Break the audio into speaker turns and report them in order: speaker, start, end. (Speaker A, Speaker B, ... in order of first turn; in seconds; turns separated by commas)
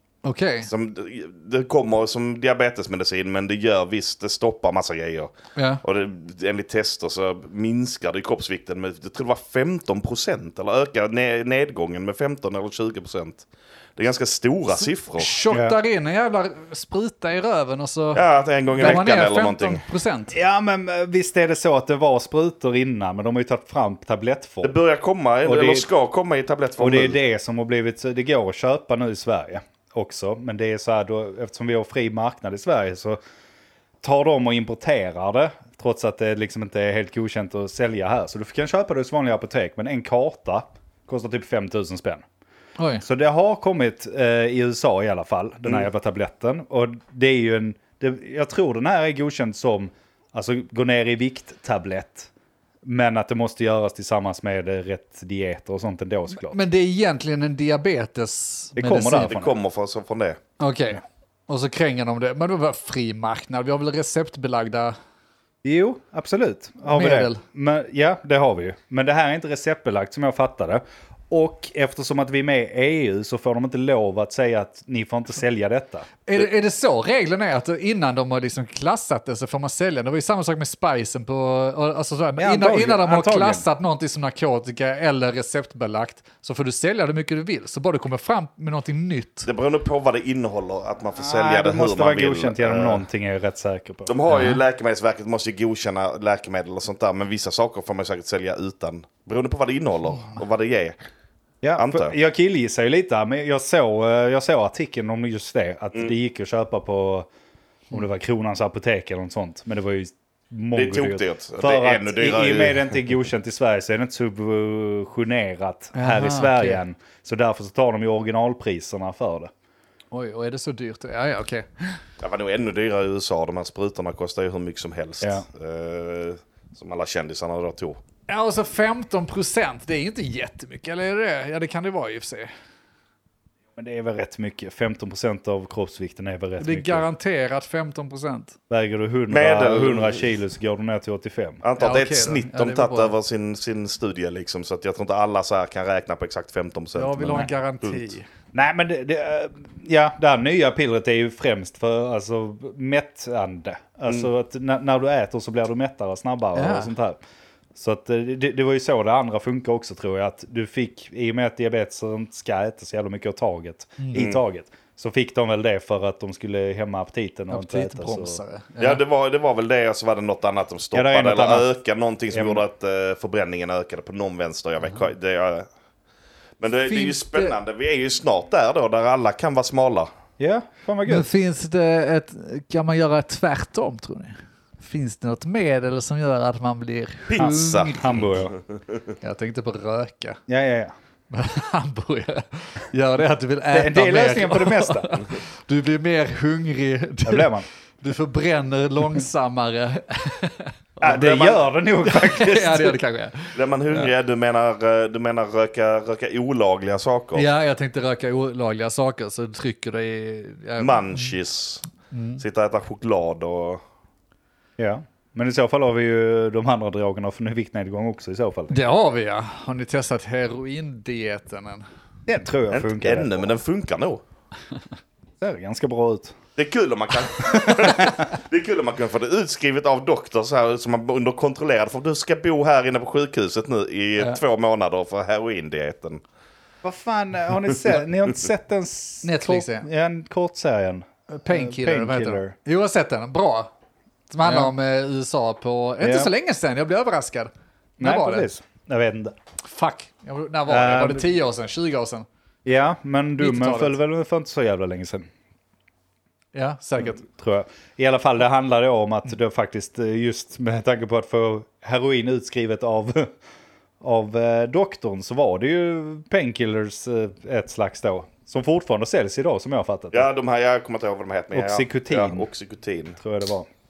Speaker A: 0.2-0.7, Speaker B: 0.6-5.3, Speaker A: 5.6-5.8, Speaker B: 5.8-15.3, Speaker A: 15.2-18.2, Speaker C: 15.5-15.8, Speaker B: 18.1-19.8, Speaker A: 18.8-20.4, Speaker C: 20.3-24.7, Speaker B: 24.6-27.2, Speaker C: 25.4-25.9, Speaker C: 26.8-33.2, Speaker C: 34.0-42.2, Speaker A: 42.8-43.0, Speaker C: 43.0-52.3, Speaker C: 52.8-56.6, Speaker A: 56.4-59.4, Speaker C: 58.8-59.5, Speaker B: 59.3-60.4, Speaker A: 60.6-65.0, Speaker C: 65.6-76.1, Speaker A: 66.9-67.4, Speaker A: 76.3-89.5, Speaker C: 82.4-83.7, Speaker B: 89.5-93.0, Speaker C: 91.2-94.1, Speaker B: 94.1-101.0, Speaker A: 94.3-94.6, Speaker C: 101.6-107.3, Speaker B: 101.8-102.1, Speaker C: 107.9-119.5, Speaker B: 110.7-112.9, Speaker A: 116.0-116.8, Speaker A: 120.1-122.0, Speaker B: 122.2-128.0, Speaker A: 128.3-132.5, Speaker C: 133.8-137.1, Speaker A: 136.6-138.6, Speaker C: 138.7-141.6, Speaker B: 139.3-140.2, Speaker B: 141.6-148.1, Speaker A: 141.8-143.2, Speaker A: 146.9-148.2, Speaker C: 148.5-157.2, Speaker A: 156.6-156.9, Speaker C: 157.8-168.4, Speaker A: 164.0-164.3, Speaker B: 164.2-164.4, Speaker A: 167.5-169.0, Speaker B: 168.8-175.7, Speaker C: 170.9-171.7, Speaker C: 172.3-172.6, Speaker B: 176.6-180.1, Speaker A: 176.9-177.6, Speaker C: 180.4-181.3, Speaker A: 181.1-188.2, Speaker B: 187.3-188.8, Speaker C: 187.4-188.5, Speaker A: 189.2-190.4, Speaker C: 190.5-190.9, Speaker A: 191.3-200.7, Speaker C: 193.7-195.2, Speaker C: 197.3-197.7, Speaker B: 201.0-201.6, Speaker C: 201.0-203.0, Speaker A: 202.0-204.1, Speaker B: 203.5-207.5, Speaker A: 207.3-211.3, Speaker B: 210.8-211.8, Speaker A: 212.1-212.4, Speaker B: 212.4-213.8, Speaker C: 214.8-218.8, Speaker A: 218.7-221.8, Speaker C: 222.3-223.5, Speaker B: 222.7-224.2, Speaker C: 225.4-226.4, Speaker B: 226.6-236.2, Speaker C: 227.6-228.0, Speaker C: 236.8-242.5, Speaker A: 239.2-239.9, Speaker A: 241.3-243.7, Speaker A: 244.3-248.5, Speaker C: 244.4-244.7, Speaker C: 246.0-246.3, Speaker C: 248.0-249.3, Speaker A: 249.7-252.3, Speaker C: 250.7-251.3, Speaker C: 252.7-255.3, Speaker A: 253.4-253.9, Speaker A: 256.5-257.2, Speaker C: 257.0-263.4, Speaker C: 264.0-270.3, Speaker B: 270.1-273.2, Speaker C: 271.5-272.5, Speaker C: 273.2-273.7